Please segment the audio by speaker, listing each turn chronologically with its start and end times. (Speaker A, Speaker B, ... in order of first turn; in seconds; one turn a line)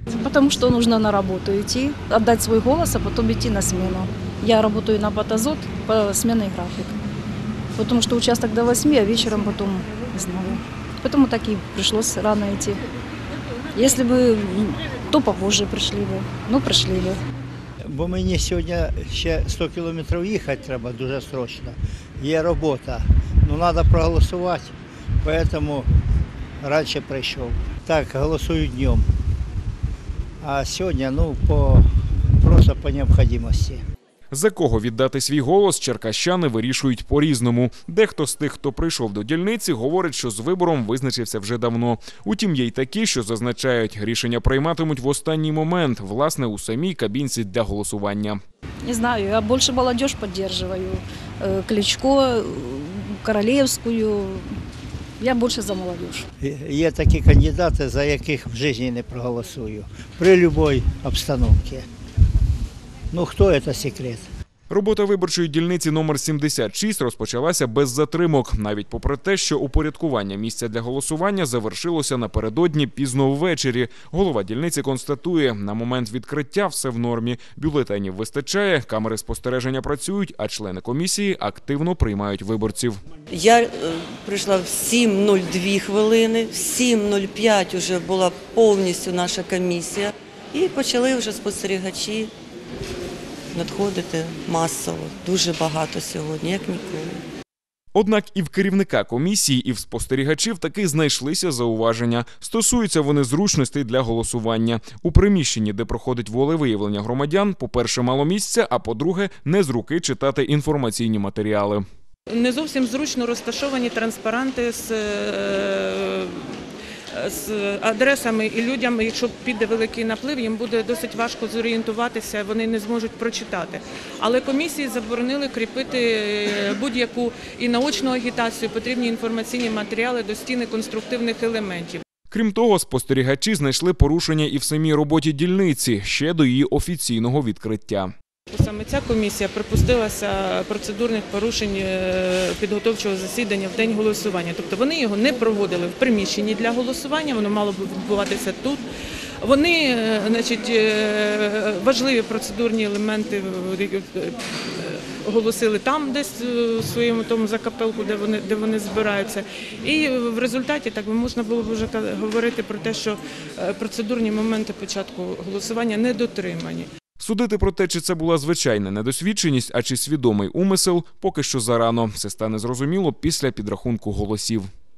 Speaker A: 0.1-6.9
Speaker A: 7.7-12.8
Speaker A: 13.7-17.2
Speaker B: 17.8-25.9
Speaker B: 26.6-29.1
Speaker B: 30.4-31.9
Speaker B: 32.4-33.8
Speaker C: 34.3-48.4
Speaker A: 48.8-54.5
Speaker A: 55.2-56.3
Speaker B: 56.4-61.9
Speaker B: 63.1-64.2
Speaker C: 64.7-83.0
Speaker D: 83.3-92.3
Speaker D: 93.5-97.2
Speaker C: 97.9-111.8
Speaker E: 112.3-132.0
Speaker C: 132.3-138.1
Speaker E: 138.5-148.8
Speaker E: 149.4-166.9
Speaker C: 167.2-174.7